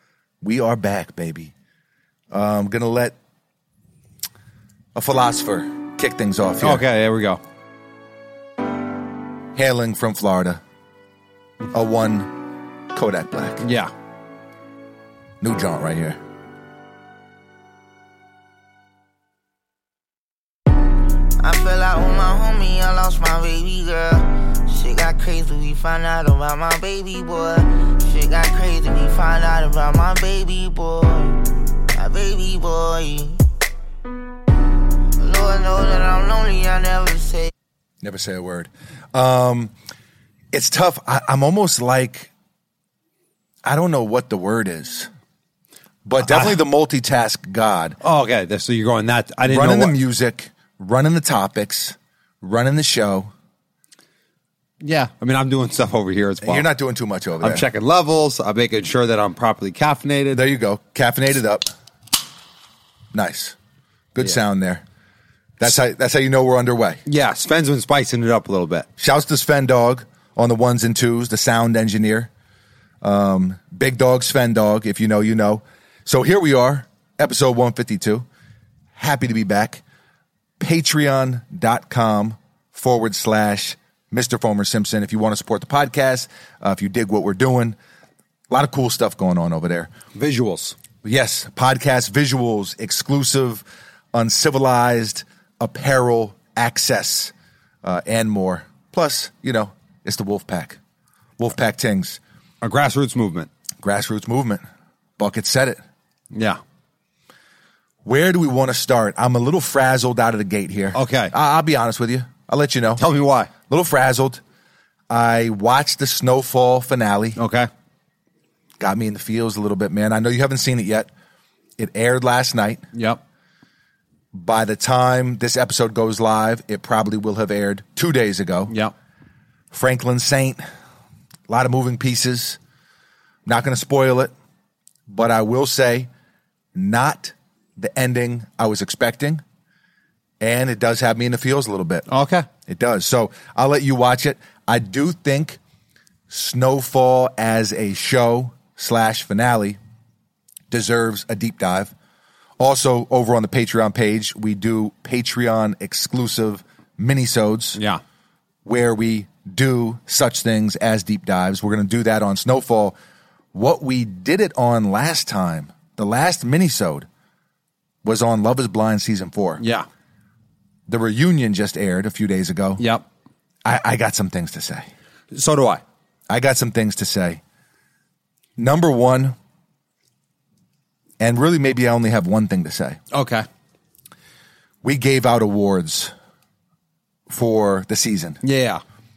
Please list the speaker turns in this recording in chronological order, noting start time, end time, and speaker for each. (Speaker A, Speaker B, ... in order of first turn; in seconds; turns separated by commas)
Speaker A: 0.4-1.5, Speaker A: 2.3-3.1, Speaker A: 4.9-6.8, Speaker B: 6.6-7.4, Speaker A: 9.6-10.6, Speaker A: 11.7-13.6, Speaker B: 13.6-13.9, Speaker A: 15.4-16.2, Speaker C: 21.4-33.4, Speaker C: 35.2-37.5, Speaker A: 38.0-39.7, Speaker A: 40.5-42.3, Speaker A: 43.6-45.1, Speaker A: 46.0-48.0, Speaker B: 46.3-46.5, Speaker B: 48.0-49.9, Speaker A: 49.5-53.3, Speaker B: 54.8-56.6, Speaker A: 56.4-57.6, Speaker B: 57.4-60.4, Speaker A: 60.3-61.7, Speaker A: 63.1-63.5, Speaker A: 64.1-64.8, Speaker A: 65.6-67.0, Speaker B: 67.0-68.9, Speaker A: 69.0-72.3, Speaker A: 73.0-78.2, Speaker A: 79.0-79.8, Speaker A: 80.6-87.8, Speaker A: 88.5-89.9, Speaker B: 90.1-90.8, Speaker A: 91.0-97.3, Speaker A: 97.8-100.8, Speaker A: 101.4-102.2, Speaker B: 102.6-103.5, Speaker A: 103.8-104.6, Speaker A: 105.2-105.8, Speaker B: 106.3-106.6, Speaker A: 108.0-113.0, Speaker B: 110.9-111.3, Speaker B: 113.0-113.5, Speaker A: 113.7-114.4, Speaker A: 115.1-117.4, Speaker B: 117.4-117.7, Speaker A: 118.8-121.1, Speaker A: 121.8-122.8, Speaker B: 122.9-123.2, Speaker A: 124.3-128.7, Speaker A: 129.7-130.6, Speaker A: 131.5-132.6, Speaker A: 133.4-134.3, Speaker A: 135.1-136.1, Speaker A: 136.7-139.4, Speaker A: 140.4-142.0, Speaker B: 142.1-142.5, Speaker A: 142.7-145.6, Speaker A: 146.3-149.8, Speaker A: 150.7-151.9, Speaker A: 152.6-157.8, Speaker B: 157.8-158.0, Speaker A: 158.6-163.0, Speaker A: 163.5-167.1, Speaker A: 168.0-169.6, Speaker B: 169.6-169.8, Speaker A: 170.9-172.8, Speaker B: 172.8-173.0, Speaker A: 173.6-174.8, Speaker B: 175.3-175.8, Speaker A: 176.3-177.4, Speaker A: 178.6-179.3, Speaker A: 181.2-183.0, Speaker B: 183.1-183.4, Speaker A: 184.8-186.1, Speaker A: 187.3-188.4, Speaker B: 188.4-188.8